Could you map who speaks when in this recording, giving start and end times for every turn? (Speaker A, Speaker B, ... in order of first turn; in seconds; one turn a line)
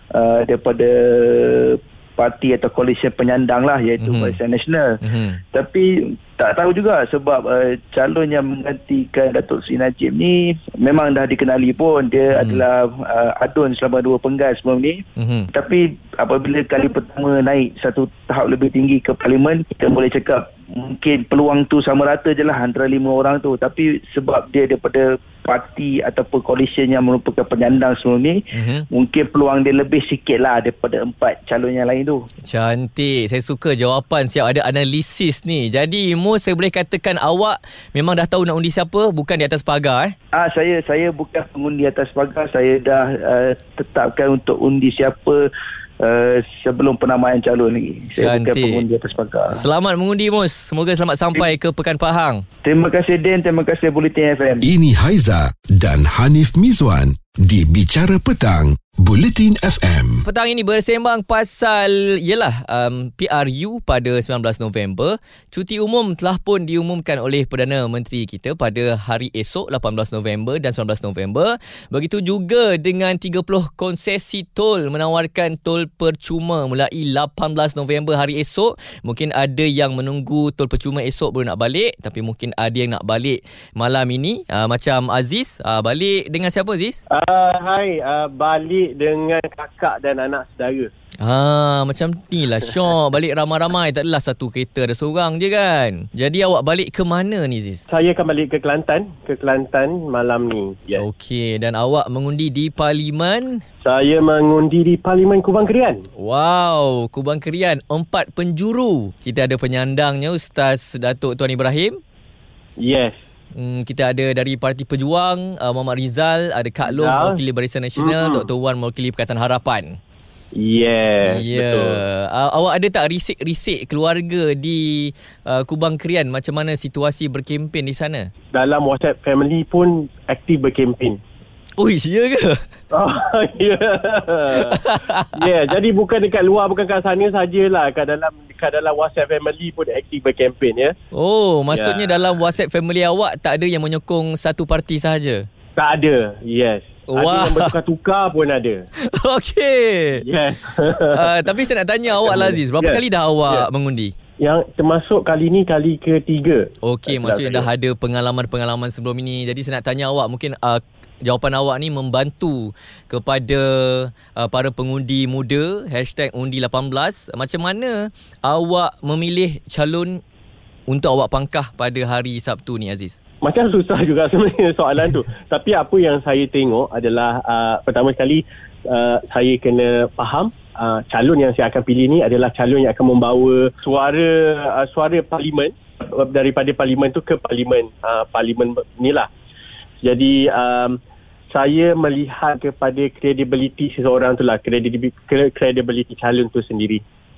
Speaker A: 0.1-5.0
Speaker B: 4.0-4.4
Speaker B: 5.0-5.4
Speaker A: 5.5-15.0
Speaker B: 12.3-12.6
Speaker B: 15.2-15.5
Speaker A: 15.5-28.4
Speaker B: 28.5-28.9
Speaker A: 28.9-32.2
Speaker B: 32.4-40.1
Speaker A: 40.3-45.4
Speaker A: 46.0-49.6
Speaker B: 48.2-48.8
Speaker B: 49.5-52.4
Speaker A: 52.6-54.7
Speaker C: 54.6-60.2
Speaker B: 60.2-87.0
Speaker D: 87.1-90.9
Speaker B: 91.2-97.8
Speaker D: 97.9-101.0
Speaker B: 100.9-103.6
Speaker D: 103.8-106.0
Speaker B: 106.2-112.0
Speaker D: 112.8-113.2
Speaker B: 113.5-120.0
Speaker D: 116.8-117.4
Speaker D: 118.0-118.5
Speaker D: 120.5-122.0
Speaker B: 121.2-128.3
Speaker D: 128.5-131.2
Speaker B: 131.8-132.7
Speaker D: 132.9-134.8
Speaker B: 134.7-135.4
Speaker D: 135.3-140.9
Speaker B: 141.1-145.5
Speaker D: 141.7-142.3
Speaker D: 145.8-148.8
Speaker B: 147.1-147.7
Speaker B: 149.0-150.2
Speaker D: 150.2-151.5
Speaker B: 151.1-154.1
Speaker D: 152.1-153.7
Speaker D: 154.4-157.7
Speaker B: 156.8-170.2
Speaker B: 170.9-173.2
Speaker D: 173.4-189.3
Speaker D: 190.0-191.0
Speaker D: 191.5-197.0